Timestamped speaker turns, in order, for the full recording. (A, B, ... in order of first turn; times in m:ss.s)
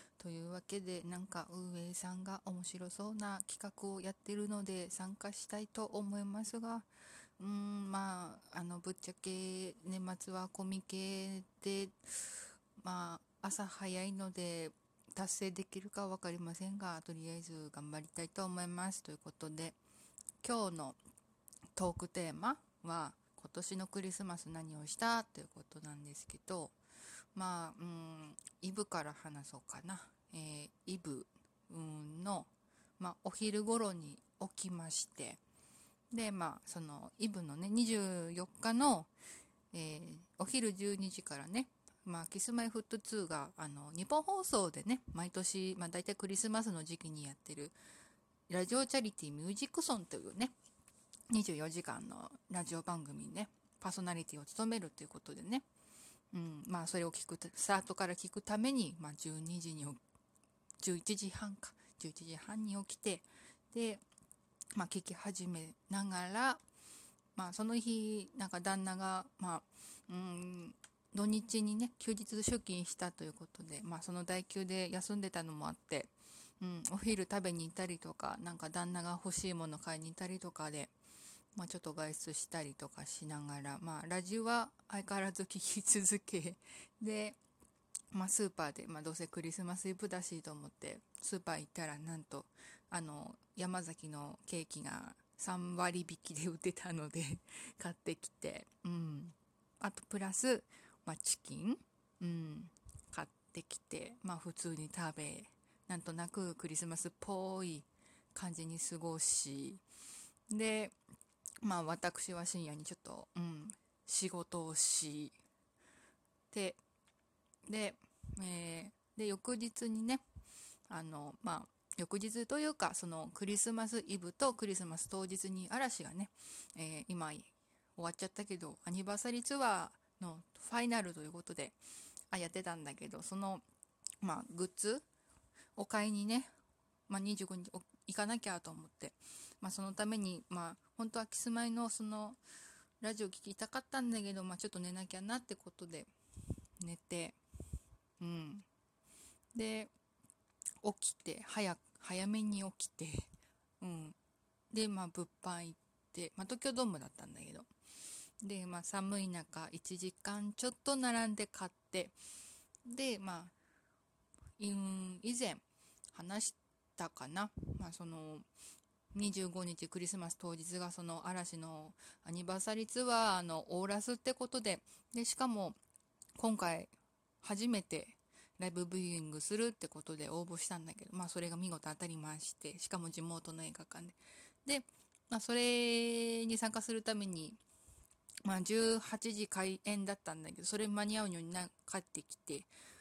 0:00.2-0:06.9 A
0:07.4-0:19.8 A
0:20.4-0:21.0 A
0:21.8-0:26.8 A
0:27.3-0:35.4 A
0:36.1-0:39.1 A
0:39.7-0:47.7 A
0:48.5-0:50.5 A
0:51.3-0:55.6 A
0:56.3-1:00.0 A
1:00.8-1:04.0 A
1:04.7-1:06.6 A
1:07.4-1:20.9 A
1:21.5-1:27.4 A
1:28.1-1:49.8 A
1:50.5-1:50.9 A
1:51.6-1:55.3 A
1:56.5-1:56.8 A
1:57.6-2:00.2 A
2:00.9-2:11.8 A
2:12.3-2:13.6 A
2:14.2-2:15.0 A
2:15.8-2:16.5 A
2:17.1-2:22.4 A
2:23.0-2:26.1 A
2:26.8-2:27.4 A
2:28.2-2:28.6 A
2:29.5-2:29.9 A
2:30.8-2:33.3 A
2:33.8-2:34.2 A
2:34.7-2:37.7 A
2:38.4-2:42.1 A
2:42.9-2:43.5 A
2:44.6-2:48.4 A
2:49.1-2:55.8 A
2:56.4-3:07.6 A
3:08.4-3:12.7 A